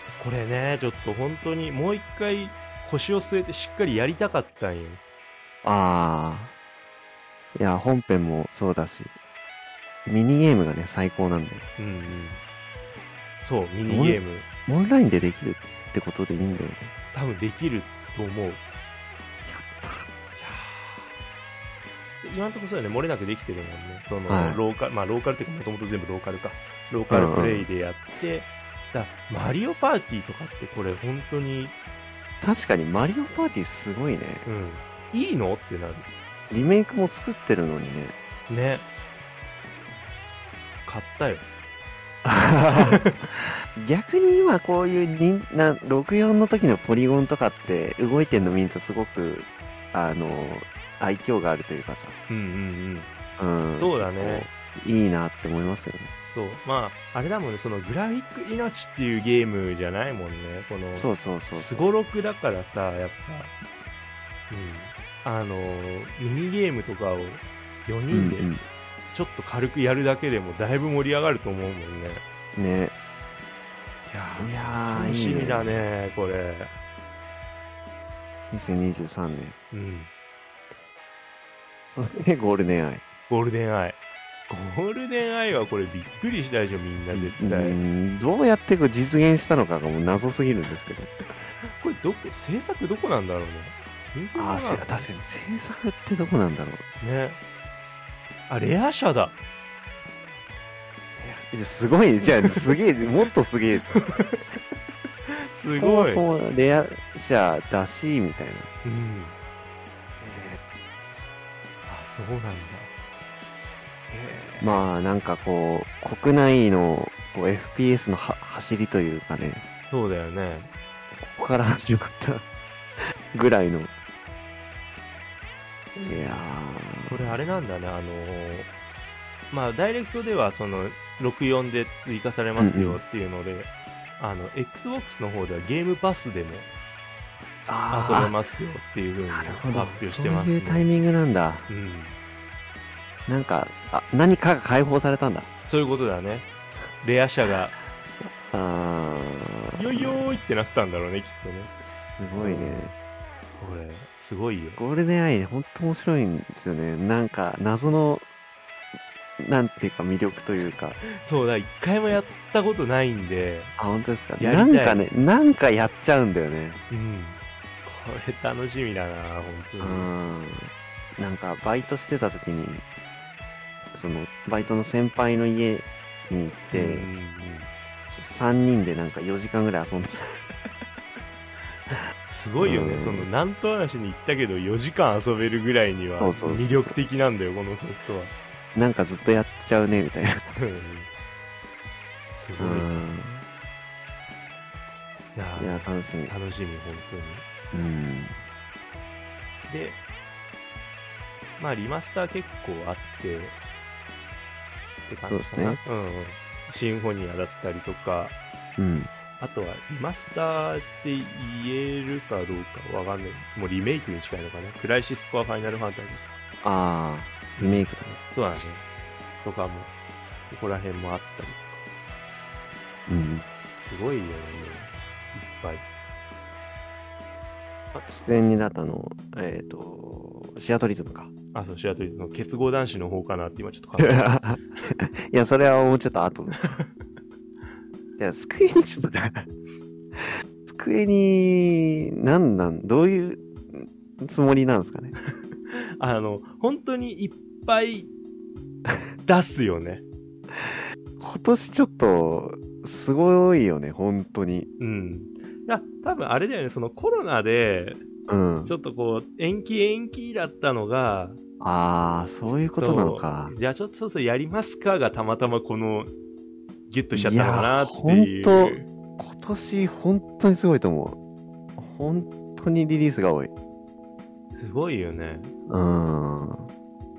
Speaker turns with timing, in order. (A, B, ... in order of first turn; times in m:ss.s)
0:00.2-0:05.0 A
0:05.6-0:06.5 B
0:07.6-0:09.2 B
0:10.1-0:11.7 B
0:11.8-0:12.4 A
0:13.4-0:14.5 A
0:13.9-0:16.9 B
0:17.1-0:18.6 A
0:19.4-0:20.1 B
0:20.4-0:21.1 A
0:22.2-0:31.8 A
0:24.3-0:24.6 B
0:27.1-0:27.7 B
0:32.4-0:34.4 B
0:34.4-0:36.1 A
0:36.5-0:38.2 B
0:38.5-0:38.9 A
0:40.9-0:41.5 A
0:42.2-0:43.0 B
0:42.8-0:43.2 A
0:43.7-0:52.2 B
0:52.3-0:53.1 A
0:53.4-0:56.1 B
0:53.8-0:54.5 A
0:56.3-1:03.5 A
1:01.0-1:01.9 B
1:04.5-1:08.6 A
1:08.1-1:08.6 B
1:09.1-1:12.2 A
1:12.6-1:12.9 B
1:14.1-1:16.7 A
1:14.4-1:15.8 B
1:18.5-1:19.6 B
1:19.7-1:20.1 A
1:21.9-1:23.0 B
1:23.3-1:27.8 A
1:27.1-1:31.2 B
1:31.8-1:35.0 A
1:34.4-1:36.8 B
1:37.0-1:37.4 A
1:38.5-1:39.4 A
1:41.2-1:43.9 B
1:43.9-1:44.4 A
1:45.3-1:46.3 A
1:45.7-1:48.7 B
1:48.8-1:49.4 A
1:50.2-1:50.6 B
1:51.8-1:52.9 A
1:54.1-1:54.8 A
1:54.6-1:59.6 B
1:59.9-2:00.7 A
2:01.2-2:02.4 B
2:03.3-2:03.9 B
2:06.0-2:07.4 B
2:07.1-2:08.7 A
2:09.5-2:16.7 A
2:12.6-2:13.0 B
2:17.7-2:18.4 B
2:17.9-2:20.9 A
2:19.3-2:21.7 B
2:21.7-2:22.2 A
2:23.3-2:25.5 B
2:25.7-2:26.5 A
2:27.0-2:27.7 A
2:28.2-2:30.2 B
2:29.8-2:31.7 A
2:31.8-2:32.9 B
2:32.4-2:32.9 A
2:33.6-2:34.8 A
2:34.8-2:38.3 B
2:39.4-2:41.0 B
2:41.1-2:43.7 A
2:43.8-2:46.8 B
2:44.4-2:45.1 A
2:46.9-2:50.1 A
2:49.8-2:52.8 B
2:53.9-2:57.1 B
2:56.7-2:57.7 A
2:58.1-3:00.2 B
3:02.2-3:08.4 A
3:02.6-3:03.3 B
3:06.2-3:07.0 B
3:08.7-3:10.4 B
3:10.6-3:11.1 A
3:12.3-3:13.0 A
3:12.6-3:13.4 B
3:15.4-3:17.4 A
3:15.6-3:16.4 B
3:17.7-3:18.4 B
3:19.7-3:20.0 A
3:21.6-3:23.6 A
3:25.1-3:28.4 A
3:25.3-3:25.8 B
3:28.8-3:29.1 B
3:29.4-3:36.4 A
3:36.6-3:38.7 B
3:37.6-3:38.8 A
3:39.4-3:39.9 A
3:40.5-3:41.8 A
3:43.1-3:43.5 B
3:43.7-3:45.8 A
3:47.9-3:51.3 B
3:51.5-3:54.4 A
3:54.0-3:56.6 B
3:56.6-3:56.9 A
3:58.2-3:59.5 B
4:00.2-4:05.1 B
4:05.7-4:08.1 A
4:09.2-4:10.0 A
4:11.2-4:14.7 B
4:14.8-4:18.0 A
4:18.3-4:18.8 B
4:18.7-4:21.4 A
4:21.6-4:23.6 B
4:22.5-4:26.1 A
4:26.9-4:28.9 A
4:27.1-4:31.2 B
4:31.8-4:33.5 B
4:34.6-4:35.5 A
4:35.7-4:36.7 B